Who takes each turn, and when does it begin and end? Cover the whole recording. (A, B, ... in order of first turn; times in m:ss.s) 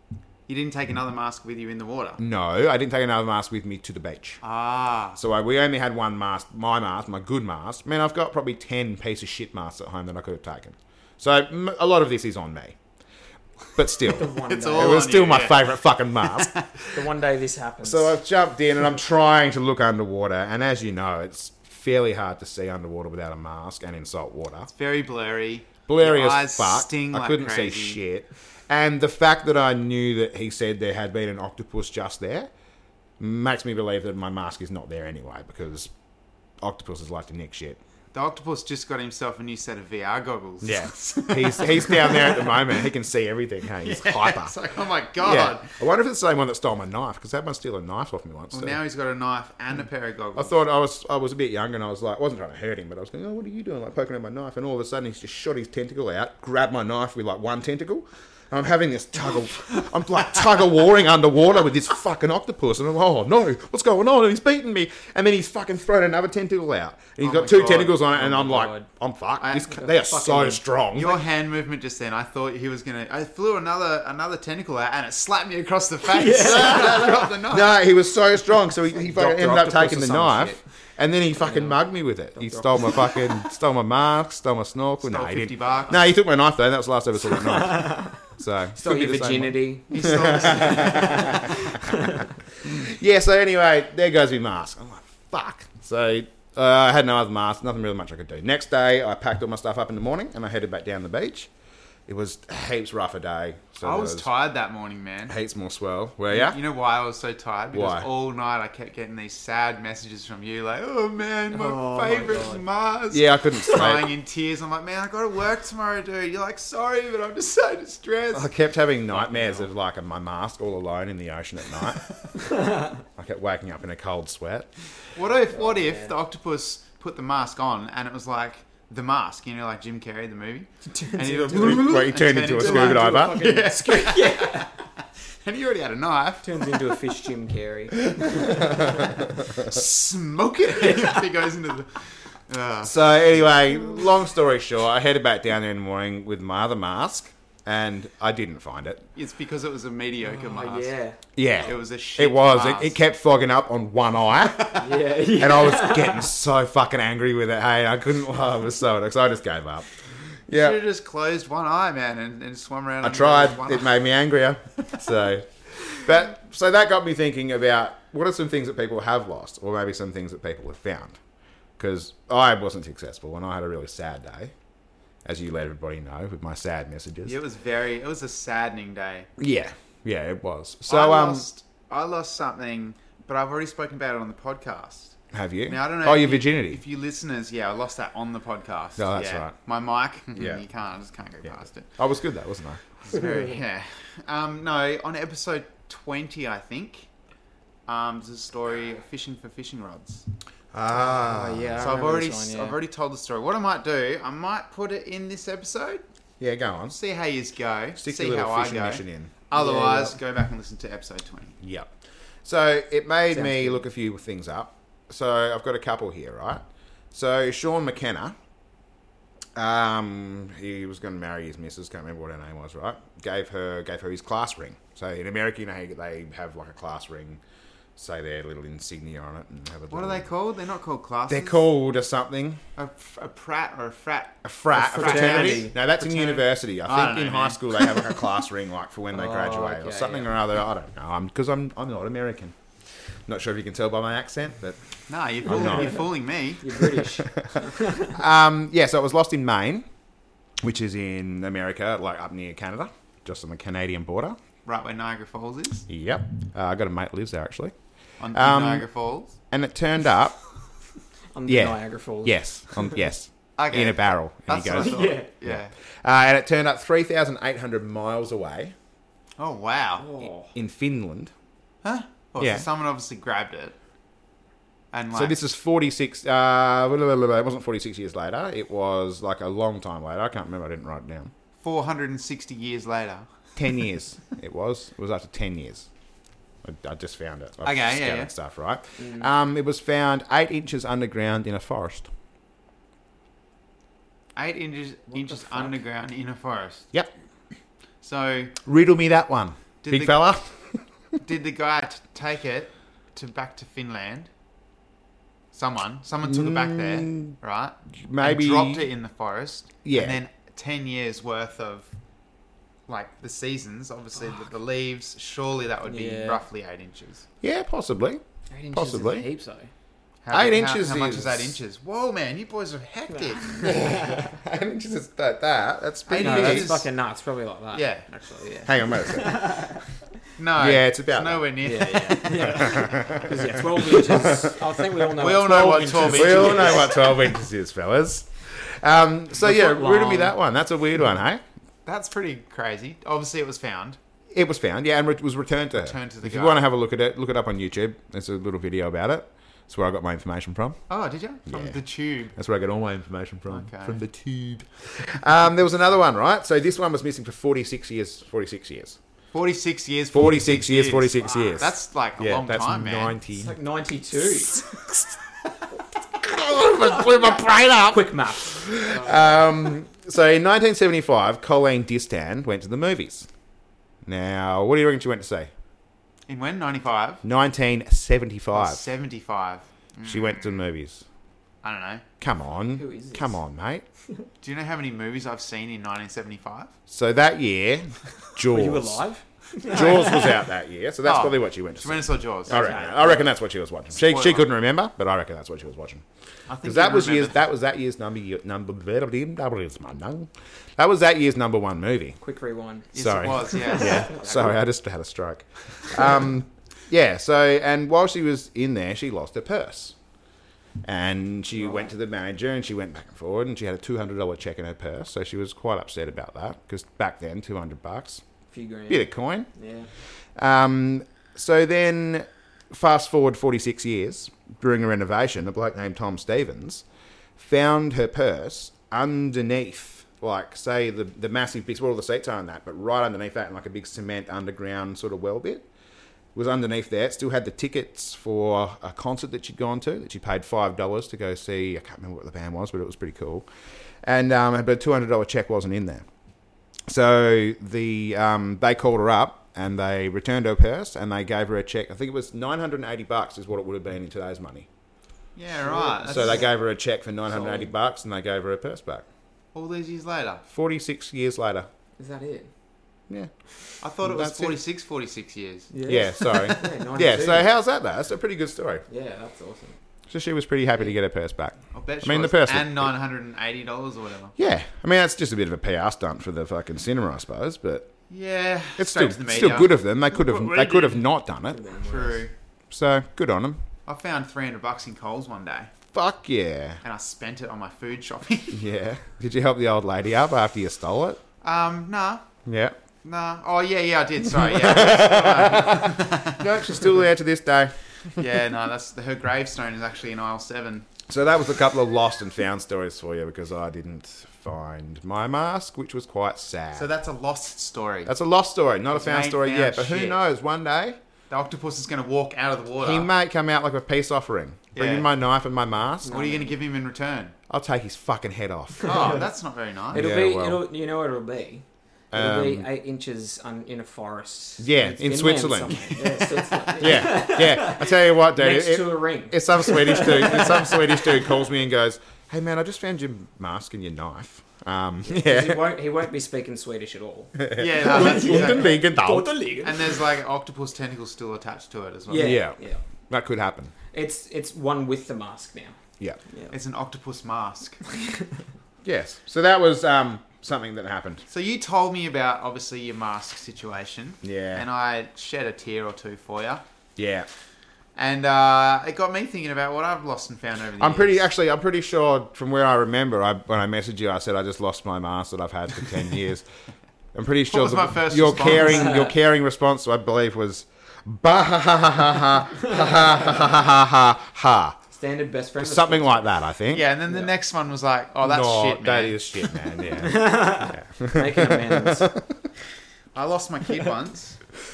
0:00.5-0:02.2 A
0:02.2-0:04.4 B
0:04.4-0:05.2 A
0:05.2-0:12.8 B
0:13.8-0:16.5 B
0:14.1-0:15.1 C
0:14.4-0:16.7 A
0:16.9-0:18.2 C
0:17.8-0:24.7 B
0:24.7-0:28.0 A
0:25.9-0:32.5 B
0:33.2-0:35.9 B
0:36.6-0:37.8 B
0:38.1-0:42.8 A
0:40.6-0:44.5 B
0:43.8-0:45.7 A
0:45.2-0:48.8 B
0:48.5-0:50.6 A
0:50.4-1:11.2 B
1:07.2-1:08.1 A
1:08.1-1:08.9 C
1:09.4-1:09.7 A
1:09.6-1:10.6 C
1:11.0-1:17.7 A
1:16.1-1:17.2 C
1:16.5-1:41.5 B
1:18.9-1:20.6 C
1:21.4-1:21.8 C
1:22.4-1:23.3 C
1:25.0-1:26.0 A
1:27.6-1:28.2 C
1:28.8-1:30.3 C
1:29.9-1:31.8 A
1:31.9-1:32.2 C
1:42.1-1:44.3 B
1:43.8-1:45.4 A
1:45.3-1:46.6 B
1:46.3-1:58.5 A
1:47.7-1:48.1 B
1:51.5-1:52.6 C
1:53.1-1:54.1 B
1:58.3-2:02.0 B
1:59.1-1:59.6 C
2:02.6-2:02.9 C
2:03.2-2:04.7 B
2:05.2-2:14.7 A
2:05.6-2:06.1 C
2:10.9-2:11.9 C
2:11.5-2:13.5 B
2:12.6-2:14.7 C
2:15.4-2:16.8 A
2:16.4-2:18.8 C
2:19.6-2:23.0 A
2:22.8-2:29.0 B
2:29.2-2:31.0 A
2:30.2-2:31.2 C
2:31.4-2:39.9 B
2:31.6-2:33.0 A
2:34.8-2:36.3 C
2:40.5-2:40.8 B
2:40.5-2:44.0 A
2:43.0-2:51.2 B
2:51.8-2:54.5 B
2:55.2-2:57.4 B
2:57.2-2:59.3 A
2:59.4-3:01.5 B
3:00.9-3:05.2 A
3:05.3-3:06.8 B
3:05.7-3:11.9 A
3:09.0-3:09.5 B
3:10.4-3:10.6 B
3:11.4-3:12.8 B
3:13.0-3:17.1 A
3:17.9-3:20.3 A
3:20.7-3:21.9 B
3:21.1-3:22.8 C
3:21.8-3:26.0 A
3:26.4-3:27.0 B
3:26.9-3:31.6 A
3:28.0-3:29.3 B
3:29.5-3:30.2 C
3:31.6-3:31.9 B
3:32.4-3:38.4 B
3:33.3-3:33.8 C
3:39.6-3:47.4 B
3:48.0-3:50.3 B
3:49.9-3:51.6 A
3:51.3-3:52.6 B
3:52.8-3:58.1 A
3:54.4-4:02.5 B
3:54.7-3:55.8 C
3:59.1-4:00.3 C
4:03.3-4:04.8 B
4:05.1-4:06.7 A
4:05.5-4:06.0 B
4:05.6-4:06.0 C
4:06.6-4:08.1 C
4:07.2-4:09.9 B
4:10.6-4:14.4 B
4:14.7-4:15.9 A
4:15.9-4:17.7 B
4:18.2-4:19.4 A
4:18.3-4:18.9 B
4:19.5-4:20.4 B
4:21.4-4:23.0 C
4:21.5-4:28.8 B
4:23.6-4:25.7 A
4:24.7-4:25.3 C
4:29.4-4:30.0 A
4:30.0-4:30.5 C
4:30.4-4:31.3 B
4:31.8-4:33.8 A
4:32.4-4:32.7 B
4:34.9-4:35.4 A
4:35.1-4:41.3 B
4:41.6-4:43.3 A
4:43.6-4:45.9 B
4:46.6-4:52.1 B
4:47.6-4:48.3 A
4:49.0-4:49.3 C
4:54.4-4:56.9 A
4:55.1-4:55.8 C
4:58.0-4:58.6 A
4:58.6-5:00.8 B
4:59.8-5:00.2 A
5:01.2-5:04.3 A
5:05.5-5:11.9 A
5:06.2-5:07.4 B
5:08.0-5:08.9 B
5:09.8-5:10.2 B
5:12.9-5:17.2 A
5:15.9-5:16.4 C
5:17.4-5:18.2 B
5:18.5-5:19.7 C
5:18.7-5:19.3 B
5:20.2-5:23.8 A
5:20.3-5:21.6 B
5:23.1-5:24.3 C
5:23.6-5:26.7 B
5:26.1-5:26.9 A
5:26.2-5:29.8 C
5:27.7-5:28.1 A
5:28.7-5:29.8 B
5:30.4-5:32.8 A
5:30.6-5:31.4 B
5:31.6-5:37.0 C
5:32.5-5:34.6 B
5:35.2-5:37.0 A
5:35.8-5:41.4 B
5:39.4-5:40.4 C
5:41.9-5:44.0 A
5:44.3-5:50.8 B
5:45.8-5:46.6 A
5:50.9-5:52.4 A
5:51.5-5:51.8 B
5:52.4-5:59.0 B
5:53.5-5:54.0 A
5:59.3-6:03.1 A
6:00.1-6:03.5 B
6:03.3-6:04.6 C
6:04.3-6:05.2 B
6:06.2-6:13.3 B
6:07.9-6:09.4 C
6:14.0-6:15.5 B
6:16.3-6:17.2 A
6:17.2-6:18.8 B
6:18.5-6:20.6 A
6:20.0-6:21.0 B
6:21.6-6:22.0 A
6:22.2-6:23.8 B
6:22.8-6:23.4 C
6:24.4-6:26.7 A
6:26.9-6:29.0 B
6:28.5-6:30.4 C
6:29.6-6:36.0 B
6:31.0-6:33.0 A
6:32.5-6:33.2 C
6:33.9-6:34.5 A
6:36.5-6:37.4 A
6:36.6-6:42.2 B
6:42.2-6:42.9 C
6:42.9-6:44.6 A
6:42.9-6:50.0 B
6:43.7-6:44.0 C
6:50.8-6:58.2 B
6:51.5-6:51.9 C
6:58.5-6:59.9 C
6:58.9-6:59.5 B
7:00.4-7:06.8 B
7:07.4-7:15.7 B
7:16.4-7:23.5 B
7:24.0-7:26.1 B
7:26.9-7:34.7 B
7:35.4-7:36.4 A
7:35.6-7:36.4 C
7:36.1-7:39.0 B
7:37.3-7:37.7 C
7:39.6-7:40.4 A
7:40.5-7:41.7 B
7:42.0-7:42.5 C
7:43.8-7:45.7 A
7:44.0-7:44.6 B
7:45.7-7:47.5 C
7:45.9-7:48.8 B
7:48.9-7:49.8 C
7:50.1-7:52.9 B
7:51.7-7:54.4 A
7:54.4-7:57.9 B
7:58.1-8:01.0 A
7:58.8-8:01.6 B
8:01.5-8:02.3 C
8:01.8-8:02.3 A
8:02.7-8:03.6 B
8:03.9-8:05.7 A
8:05.9-8:06.8 B
8:06.8-8:08.6 A
8:08.5-8:11.2 B
8:11.4-8:12.3 A
8:12.5-8:12.8 B
8:13.0-8:16.9 A
8:14.6-8:18.2 B
8:18.2-8:20.9 A
8:21.1-8:26.9 B
8:26.8-8:28.1 A
8:28.0-8:31.0 B
8:28.9-8:30.2 A
8:31.3-8:33.1 A
8:32.8-8:36.1 B
8:34.8-8:35.1 A
8:36.0-8:36.6 C
8:36.1-8:37.4 A
8:37.5-8:39.0 B
8:38.8-8:40.0 A
8:38.9-8:39.2 C
8:39.9-8:40.6 B
8:39.9-8:51.3 C
8:42.1-8:42.7 B
8:44.6-8:46.2 B
8:46.8-8:55.8 B
8:55.0-8:59.9 C
8:57.4-8:59.3 B
8:57.6-8:58.8 A
8:59.6-9:02.4 A
9:02.1-9:02.8 C
9:02.1-9:02.6 B
9:03.1-9:03.7 B
9:03.9-9:05.8 C
9:06.3-9:06.6 C
9:06.5-9:07.8 A
9:08.8-9:11.2 B
9:11.3-9:16.6 A
9:14.2-9:14.7 B
9:17.0-9:17.3 B
9:18.0-9:21.2 A
9:20.8-9:26.5 B
9:27.2-9:34.8 B
9:27.5-9:29.1 A
9:28.8-9:29.1 C
9:34.9-9:36.3 C
9:35.6-9:36.9 B
9:36.7-9:39.2 A
9:38.2-9:42.3 B
9:40.0-9:42.1 C
9:43.2-9:44.4 A